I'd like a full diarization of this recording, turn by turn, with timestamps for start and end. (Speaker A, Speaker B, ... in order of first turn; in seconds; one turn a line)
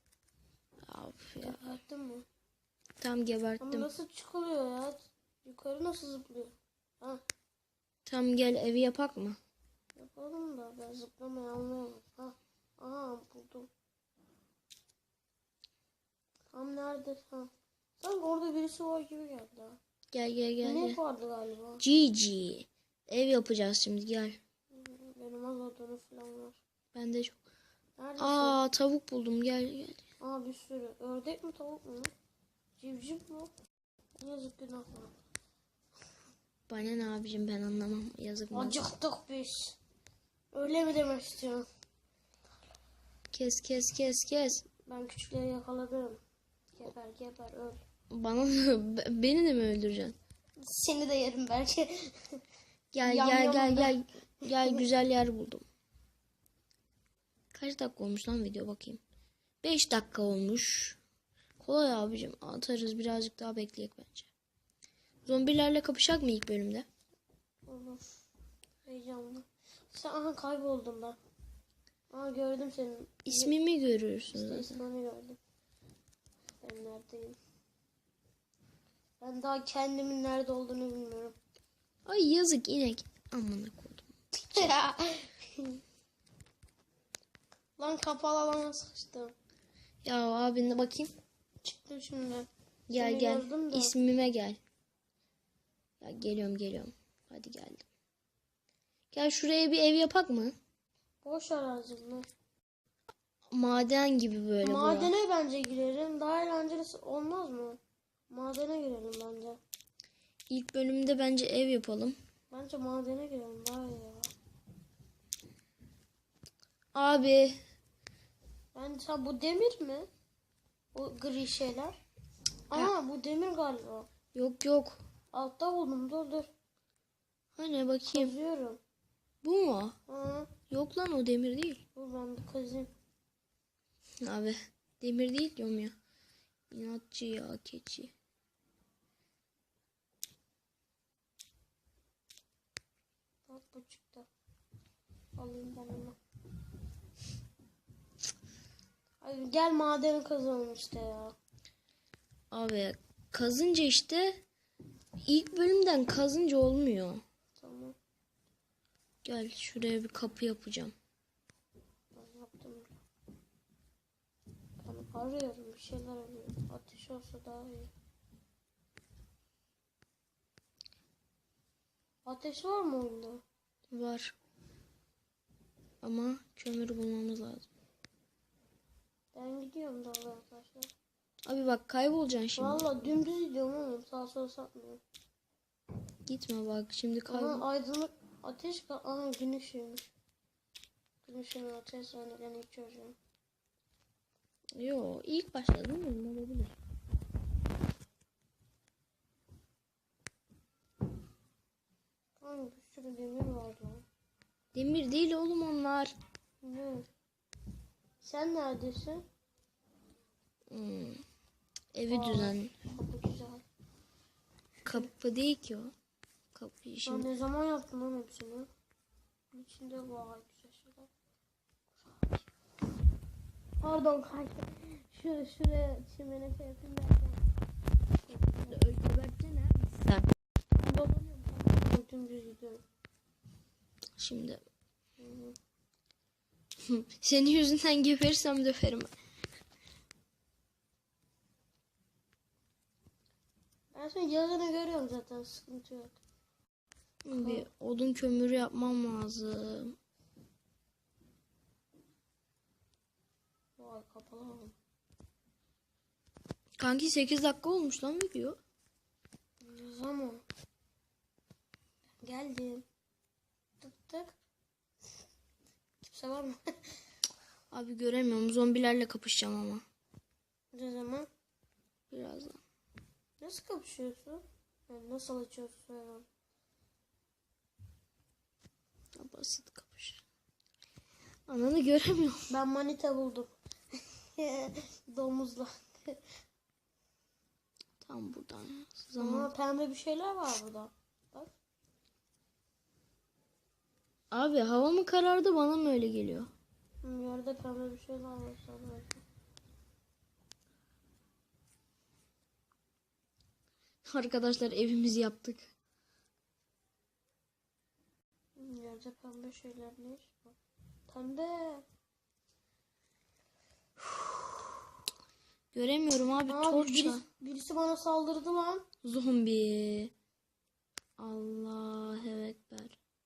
Speaker A: 0.8-1.8
Speaker B: 1.4-2.2
Speaker A: 3.0-3.9
Speaker B: 3.6-7.2
Speaker A: 8.1-9.4
Speaker B: 9.9-13.7
Speaker B: 16.5-19.8
Speaker A: 20.1-21.0
Speaker B: 20.6-21.8
Speaker A: 21.8-24.4
Speaker B: 24.7-26.6
Speaker A: 26.9-27.4
Speaker B: 28.0-28.6
Speaker A: 28.2-30.0
Speaker B: 30.2-32.1
Speaker B: 32.8-33.5
Speaker B: 34.2-35.2
Speaker A: 36.7-38.8
Speaker B: 38.5-39.8
Speaker B: 40.5-41.6
Speaker A: 43.3-44.6
Speaker B: 44.9-46.2
Speaker B: 46.8-47.8
Speaker A: 48.1-50.1
Speaker B: 50.6-52.4
Speaker A: 52.9-55.6
Speaker B: 53.0-54.8
Speaker A: 57.5-59.0
Speaker A: 59.6-61.0
Speaker A: 61.6-64.3
Speaker A: 65.2-66.9
Speaker B: 67.7-68.2
Speaker B: 68.8-71.2
Speaker B: 72.1-73.5
Speaker A: 73.2-74.8
Speaker B: 74.3-75.4
Speaker B: 76.6-77.4
Speaker B: 79.2-81.3
Speaker A: 82.1-84.7
Speaker B: 84.5-85.8
Speaker B: 87.8-89.3
Speaker A: 90.0-91.1
Speaker B: 91.6-93.9
Speaker A: 92.9-94.6
Speaker A: 96.0-97.8
Speaker A: 99.1-100.5
Speaker B: 101.2-102.3
Speaker A: 103.5-105.1
Speaker B: 104.6-107.8
Speaker B: 108.3-109.6
Speaker A: 110.5-112.2
Speaker B: 112.5-114.3
Speaker A: 116.9-117.6
Speaker B: 118.7-120.1
Speaker B: 120.9-121.9
Speaker B: 122.7-124.1
Speaker A: 124.3-125.0
Speaker B: 125.3-126.5
Speaker A: 127.6-128.3
Speaker B: 128.1-128.8
Speaker A: 129.4-129.9
Speaker B: 130.1-130.5
Speaker A: 130.7-131.8
Speaker B: 131.9-132.9
Speaker A: 134.2-135.9
Speaker A: 136.7-138.1
Speaker B: 143.5-144.3
Speaker B: 145.4-146.2
Speaker B: 149.2-151.3
Speaker A: 152.5-154.4
Speaker A: 155.2-157.2
Speaker B: 157.6-157.9
Speaker A: 159.2-160.9
Speaker B: 162.1-163.0
Speaker B: 164.8-167.9
Speaker B: 172.2-173.4
Speaker A: 173.9-174.3
Speaker A: 176.0-177.7
Speaker B: 179.3-180.9
Speaker A: 181.4-182.9
Speaker B: 182.6-185.0
Speaker A: 186.2-187.6
Speaker B: 187.3-190.1
Speaker B: 191.2-193.2
Speaker A: 194.8-196.8
Speaker B: 202.4-204.1
Speaker A: 204.7-206.1
Speaker B: 206.6-207.1
Speaker B: 208.2-209.2
Speaker A: 210.7-211.2
Speaker A: 211.9-212.7
Speaker B: 212.1-213.6
Speaker B: 214.8-215.1
Speaker A: 214.8-215.9
Speaker A: 216.5-217.3
Speaker B: 217.1-218.7
Speaker B: 219.5-221.1
Speaker B: 222.0-222.3
Speaker B: 223.8-227.4
Speaker B: 228.2-228.9
Speaker A: 228.7-230.3
Speaker B: 230.8-232.8
Speaker A: 234.2-234.6
Speaker B: 235.2-235.6
Speaker A: 236.9-239.1
Speaker B: 243.9-246.2
Speaker A: 247.2-249.9
Speaker B: 247.3-247.7
Speaker B: 253.8-254.8
Speaker A: 256.8-258.6
Speaker B: 259.6-260.4
Speaker B: 262.2-262.8
Speaker B: 263.8-264.3
Speaker B: 266.0-266.6
Speaker A: 267.7-269.8
Speaker B: 270.7-271.3
Speaker A: 272.1-272.6
Speaker B: 273.4-276.2
Speaker A: 279.1-280.2
Speaker A: 281.5-282.4
Speaker B: 282.5-286.2
Speaker A: 288.0-289.5
Speaker B: 289.2-291.5
Speaker A: 294.3-296.5
Speaker B: 297.0-299.2
Speaker A: 304.1-305.7
Speaker B: 308.6-310.6
Speaker B: 311.1-311.9
Speaker A: 315.7-317.2
Speaker B: 316.5-318.9
Speaker A: 319.0-320.1
Speaker A: 321.2-323.0